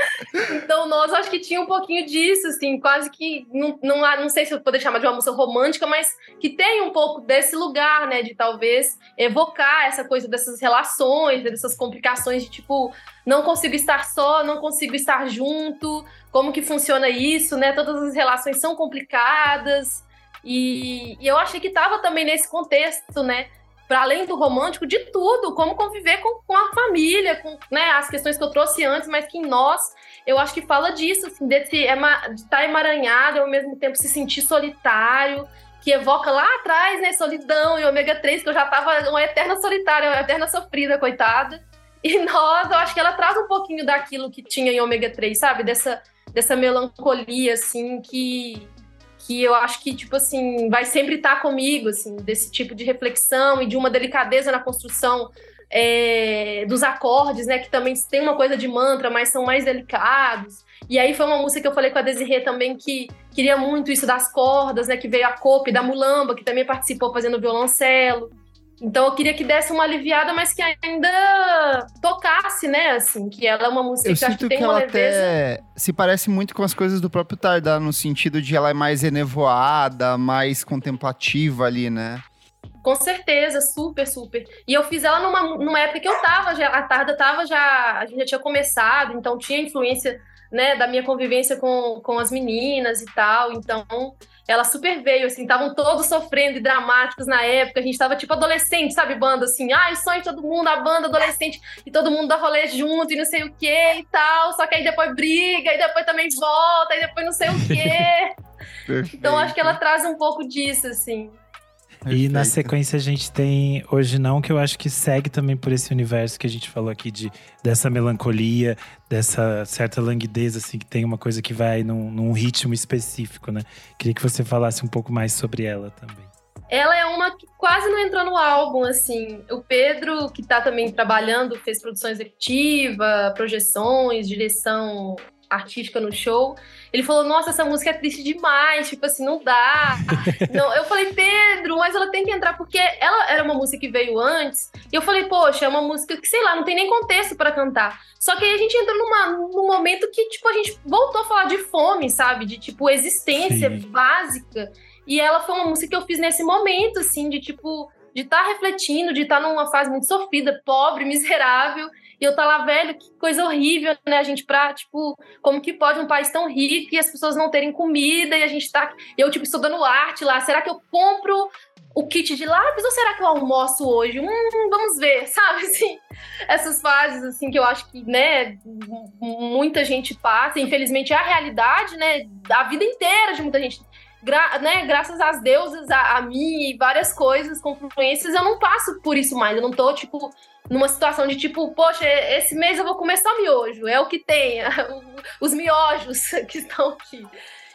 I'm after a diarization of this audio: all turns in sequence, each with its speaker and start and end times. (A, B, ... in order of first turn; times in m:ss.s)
0:00.5-1:15.4 A
1:14.0-1:22.2 B
1:22.8-1:48.3 A
1:48.9-1:49.8 B
1:49.2-1:51.4 A
1:52.0-1:52.7 B
1:52.1-2:06.3 C
2:06.7-3:17.3 A
2:33.3-2:33.8 C